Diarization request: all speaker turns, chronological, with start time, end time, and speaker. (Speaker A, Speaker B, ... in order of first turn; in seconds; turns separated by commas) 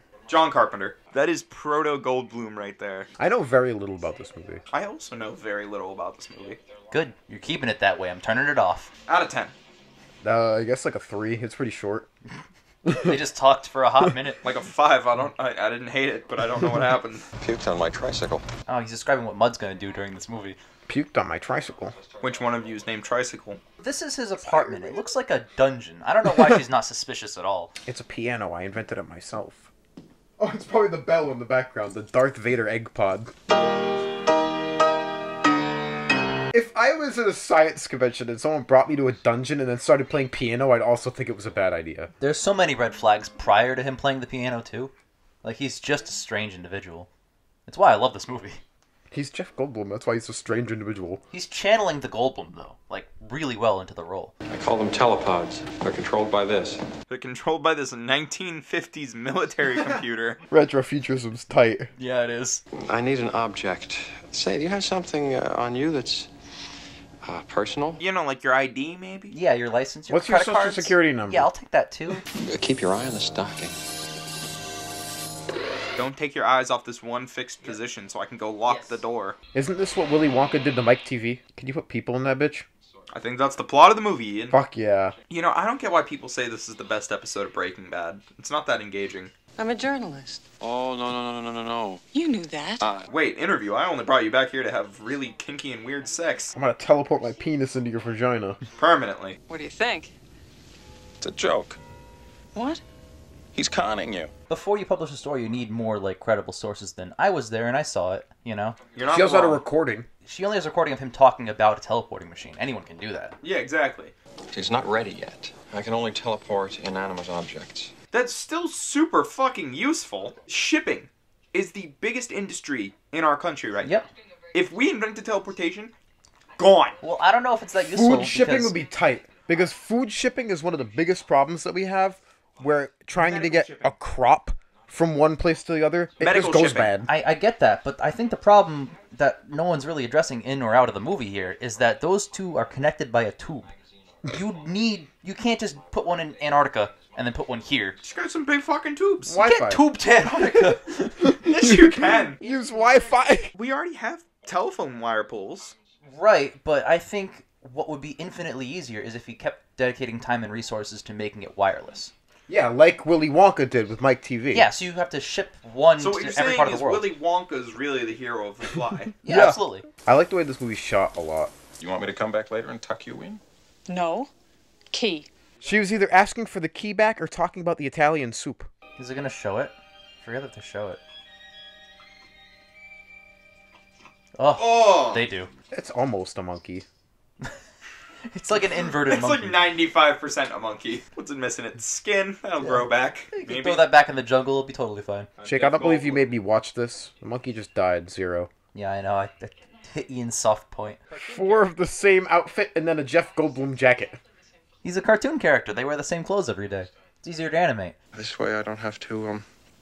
Speaker A: 0.3-3.1, Speaker B: 3.2-4.6, Speaker A: 4.7-6.6, Speaker C: 6.9-8.9, Speaker A: 9.1-9.5, Speaker B: 10.2-12.1, Speaker B: 12.8-13.2, Speaker C: 12.9-14.4, Speaker A: 14.4-17.3, Speaker D: 17.4-18.4, Speaker C: 18.7-20.6, Speaker B: 20.9-21.9, Speaker A: 22.2-23.6, Speaker C: 23.8-27.7, Speaker B: 24.4-25.0, Speaker B: 27.9-29.7, Speaker B: 30.4-33.3, Speaker B: 36.5-42.1, Speaker C: 42.2-44.9, Speaker C: 45.4-47.1, Speaker C: 47.7-48.6, Speaker B: 49.1-51.2, Speaker C: 51.3-54.3, Speaker D: 54.5-56.8, Speaker A: 57.1-60.4, Speaker B: 60.5-61.9, Speaker C: 62.0-62.6, Speaker D: 62.8-66.3, Speaker D: 67.2-68.0, Speaker A: 68.0-69.3, Speaker C: 69.3-72.2, Speaker B: 70.1-71.5, Speaker D: 72.3-73.7, Speaker A: 76.0-79.3, Speaker C: 78.7-79.0, Speaker B: 79.5-82.7, Speaker A: 83.1-84.6, Speaker B: 84.5-85.1, Speaker A: 85.3-89.3, Speaker E: 89.6-90.4, Speaker D: 90.6-92.0, Speaker E: 92.1-92.9, Speaker D: 92.8-93.1, Speaker A: 93.1-96.5, Speaker B: 96.5-98.6, Speaker A: 98.8-99.4, Speaker E: 99.5-100.1, Speaker D: 101.2-101.8, Speaker E: 102.5-102.8, Speaker D: 103.5-104.3, Speaker C: 104.5-108.8, Speaker A: 109.0-109.6, Speaker B: 109.1-110.1, Speaker C: 110.2-113.3, Speaker A: 113.4-114.1, Speaker D: 114.5-117.9, Speaker A: 118.1-123.9, Speaker C: 123.8-124.1, Speaker A: 124.5-125.9, Speaker A: 126.6-127.0, Speaker C: 127.0-128.8, Speaker B: 127.8-137.1, Speaker A: 133.1-133.9, Speaker A: 136.2-136.9, Speaker C: 137.1-143.7, Speaker C: 144.3-148.0, Speaker A: 148.0-149.3, Speaker B: 149.2-153.5, Speaker C: 149.4-151.4, Speaker A: 151.3-152.4, Speaker A: 153.5-155.7, Speaker C: 156.1-162.1, Speaker B: 162.5-164.7, Speaker C: 164.5-167.1, Speaker A: 166.0-169.2, Speaker C: 169.2-169.8, Speaker B: 169.2-171.5, Speaker D: 171.8-173.4, Speaker E: 173.9-174.3, Speaker E: 174.9-175.3, Speaker B: 175.6-178.7, Speaker C: 179.0-181.0, Speaker C: 184.3-185.5, Speaker A: 184.6-185.2, Speaker B: 185.7-186.8, Speaker C: 188.2-189.6, Speaker A: 188.7-193.9, Speaker C: 192.6-195.3, Speaker A: 195.4-196.3, Speaker B: 195.4-198.5, Speaker C: 198.7-201.0, Speaker B: 201.1-204.2, Speaker C: 204.8-207.9, Speaker D: 208.1-209.4